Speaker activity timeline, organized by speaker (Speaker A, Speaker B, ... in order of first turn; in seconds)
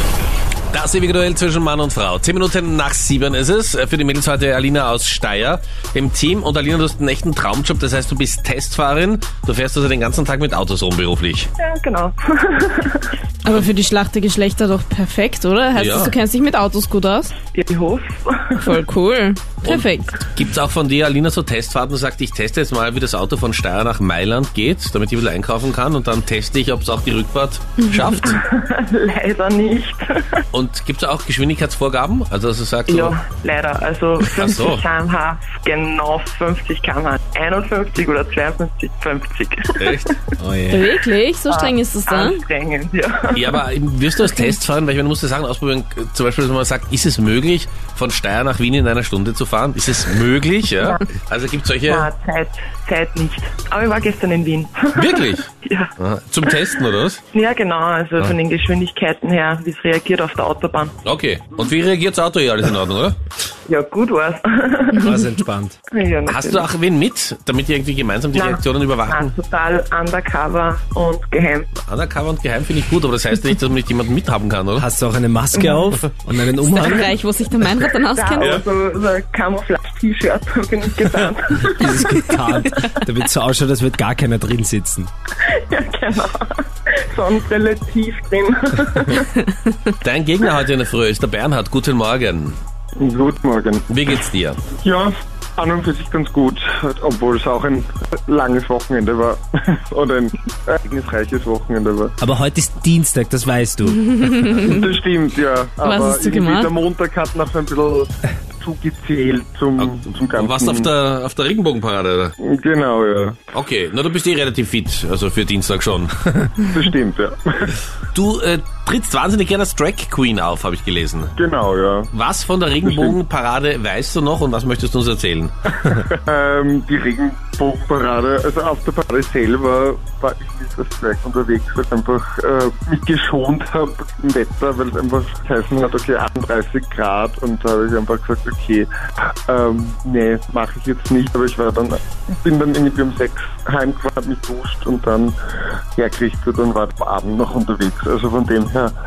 Speaker A: 0.7-11.5, 15.8-16.1, 19.6-28.4, 30.5-33.2, 34.2-34.8, 39.8-40.1, 43.3-52.1, 54.9-57.2, 61.0-63.2, 66.2-69.3, 71.8-74.9, 90.0-92.6, 93.9-94.6, 109.8-112.3, 113.5-116.2, 118.1-121.3, 122.1-125.7
Speaker B: 11.6-13.1, 17.5-18.7, 28.2-30.4, 32.9-40.2, 41.5-43.6, 44.2-44.5, 51.8-55.9, 56.4-60.9, 63.7-65.3, 65.9-66.7, 68.3-71.7, 78.0-82.3, 85.4-89.5
Speaker C: 13.4-17.3, 18.6-20.2, 40.7-42.4, 76.6-78.6, 103.9-104.9, 105.8-106.7
Speaker D: 40.4-40.8, 65.0-65.8, 74.8-77.1, 81.7-85.1, 102.2-104.0
Speaker E: 93.0-93.9, 94.8-102.1, 104.6-110.9, 112.4-113.4, 116.6-117.8, 121.3-122.1, 122.8-123.2, 125.8-138.9, 139.5-145.3, 145.9-148.9